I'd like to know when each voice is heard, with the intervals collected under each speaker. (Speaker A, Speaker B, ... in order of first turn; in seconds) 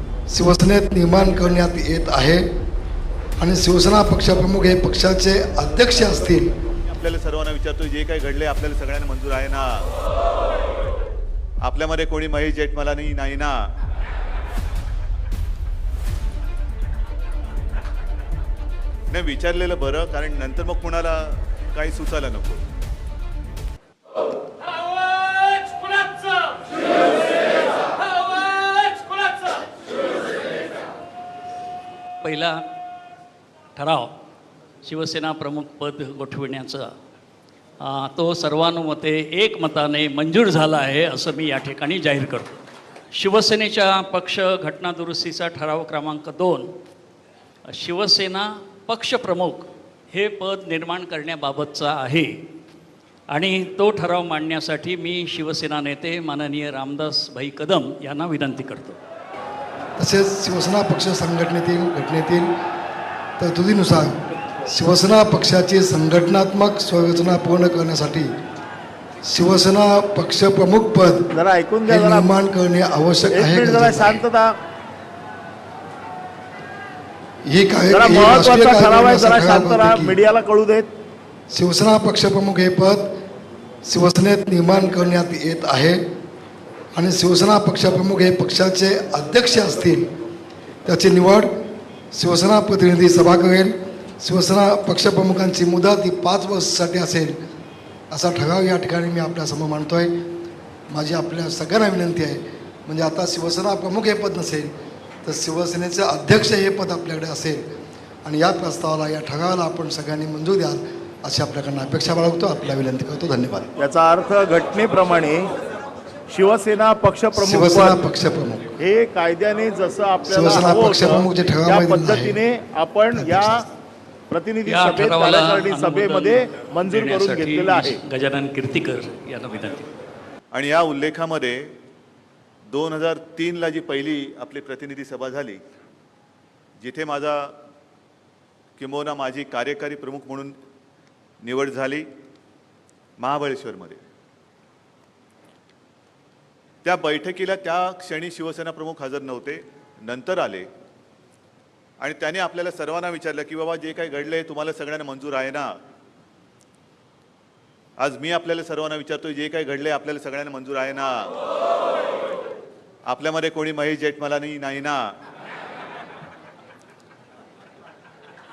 Speaker A: 0.3-2.5, 3.4-6.5, 60.0-62.5, 63.4-68.3, 69.2-71.3, 71.9-74.2, 77.5-80.2, 81.5-83.1, 83.8-86.0, 87.0-90.1, 90.8-91.5, 92.1-97.4, 98.1-100.1, 100.9-104.7, 105.2-107.7, 108.2-113.7, 117.3-118.7, 120.3-122.4, 123.1-123.7
Speaker B: 7.0-9.9, 11.6-13.6, 19.1-22.6, 130.5-131.7, 132.7-135.6, 136.8-137.5, 138.8-140.6, 141.4-142.1, 143.2-144.0, 146.8-150.7, 152.0-155.7, 158.0-161.4, 163.1-165.0
Speaker C: 32.2-32.6, 33.8-34.1, 34.8-36.9, 37.8-46.7, 47.7-52.4, 53.3-59.0, 124.7-129.8
Speaker D: 71.3-72.3, 73.3-74.5, 77.9-80.9, 113.8-115.5, 116.3-118.0, 118.8-123.7, 124.3-128.0